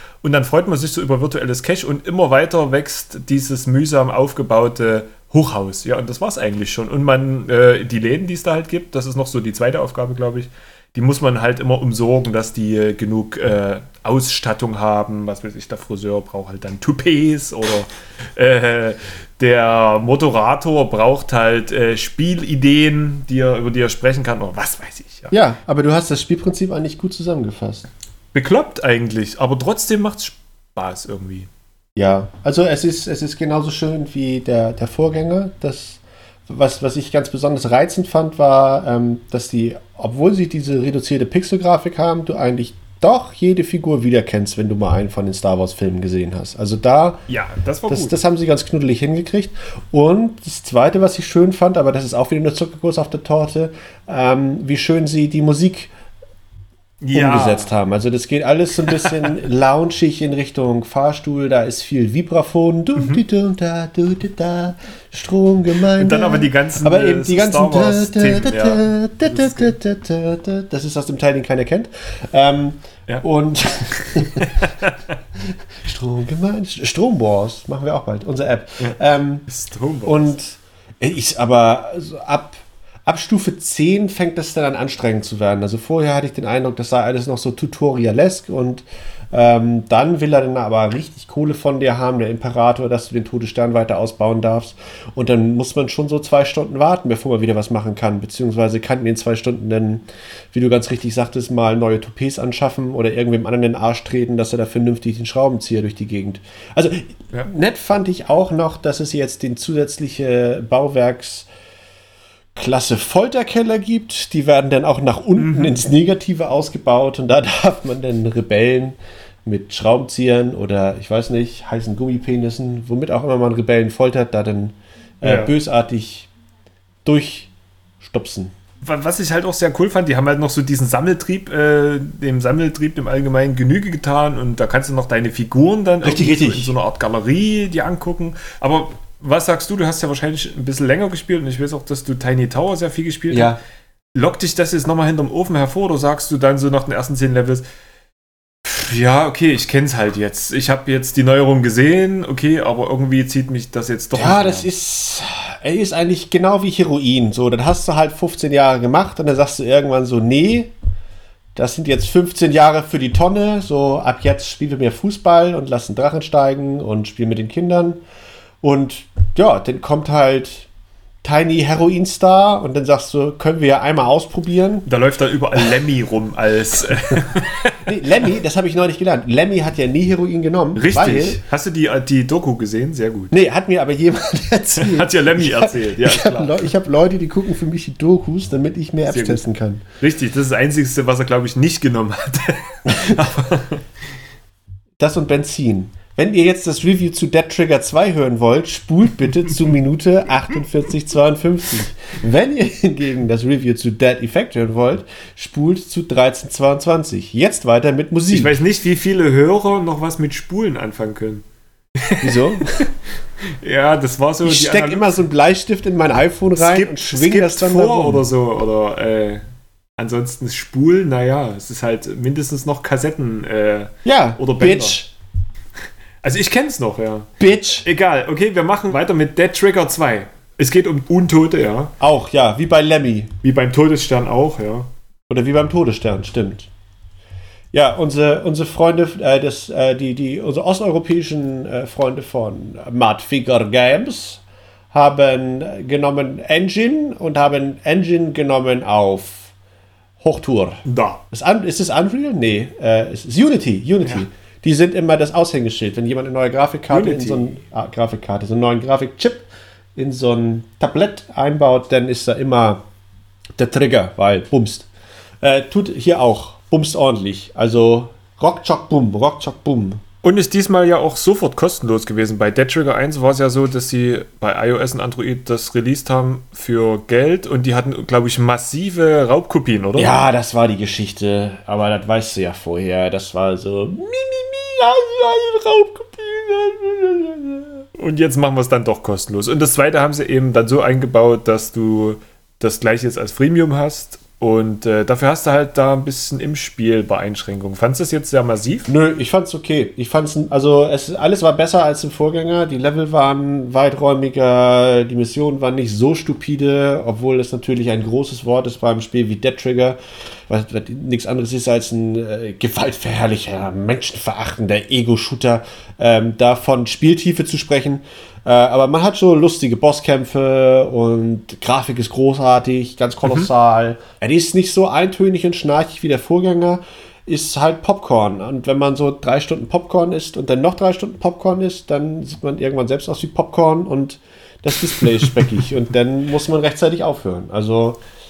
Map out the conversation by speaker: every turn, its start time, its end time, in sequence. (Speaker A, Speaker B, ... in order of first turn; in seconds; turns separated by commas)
Speaker A: 0.2-25.3, Speaker B: 25.3-27.9, Speaker A: 28.3-31.5, Speaker B: 32.0-47.2, Speaker A: 47.3-48.2, Speaker B: 47.9-55.9, Speaker A: 57.0-57.7, Speaker B: 57.1-74.6, Speaker A: 59.0-59.3, Speaker A: 63.0-63.2, Speaker A: 66.0-69.8, Speaker A: 74.1-75.0, Speaker B: 75.5-79.5, Speaker A: 79.5-80.3, Speaker B: 80.1-111.5, Speaker B: 112.5-126.3, Speaker A: 115.4-115.8, Speaker A: 125.2-125.5, Speaker B: 127.0-128.5, Speaker A: 128.8-143.6, Speaker B: 136.0-136.7, Speaker B: 143.3-143.6, Speaker A: 144.1-147.7, Speaker A: 148.6-154.7, Speaker B: 154.1-160.7, Speaker B: 161.6-168.0, Speaker B: 168.6-170.7, Speaker B: 171.2-174.9, Speaker A: 174.9-177.8, Speaker B: 177.8-181.4, Speaker A: 180.8-183.3, Speaker B: 183.3-189.8, Speaker A: 184.8-186.7, Speaker A: 189.1-189.4, Speaker A: 190.0-193.8, Speaker B: 192.9-193.3, Speaker B: 195.0-208.6, Speaker A: 208.3-211.4, Speaker A: 212.0-212.9, Speaker B: 212.2-212.9, Speaker A: 213.4-215.2, Speaker B: 214.4-218.2, Speaker A: 216.6-219.4, Speaker A: 220.0-225.0, Speaker B: 224.1-225.1, Speaker A: 226.2-227.3, Speaker B: 227.4-227.9, Speaker A: 227.8-231.9, Speaker B: 232.0-233.3, Speaker A: 233.4-234.9, Speaker B: 235.3-236.7, Speaker B: 237.7-249.5, Speaker B: 250.2-262.8, Speaker A: 250.8-251.2, Speaker A: 256.9-257.6, Speaker B: 263.6-264.9, Speaker B: 265.4-270.0, Speaker A: 270.2-280.2, Speaker B: 280.0-287.9, Speaker A: 287.9-298.9, Speaker B: 298.9-310.0, Speaker B: 310.5-338.0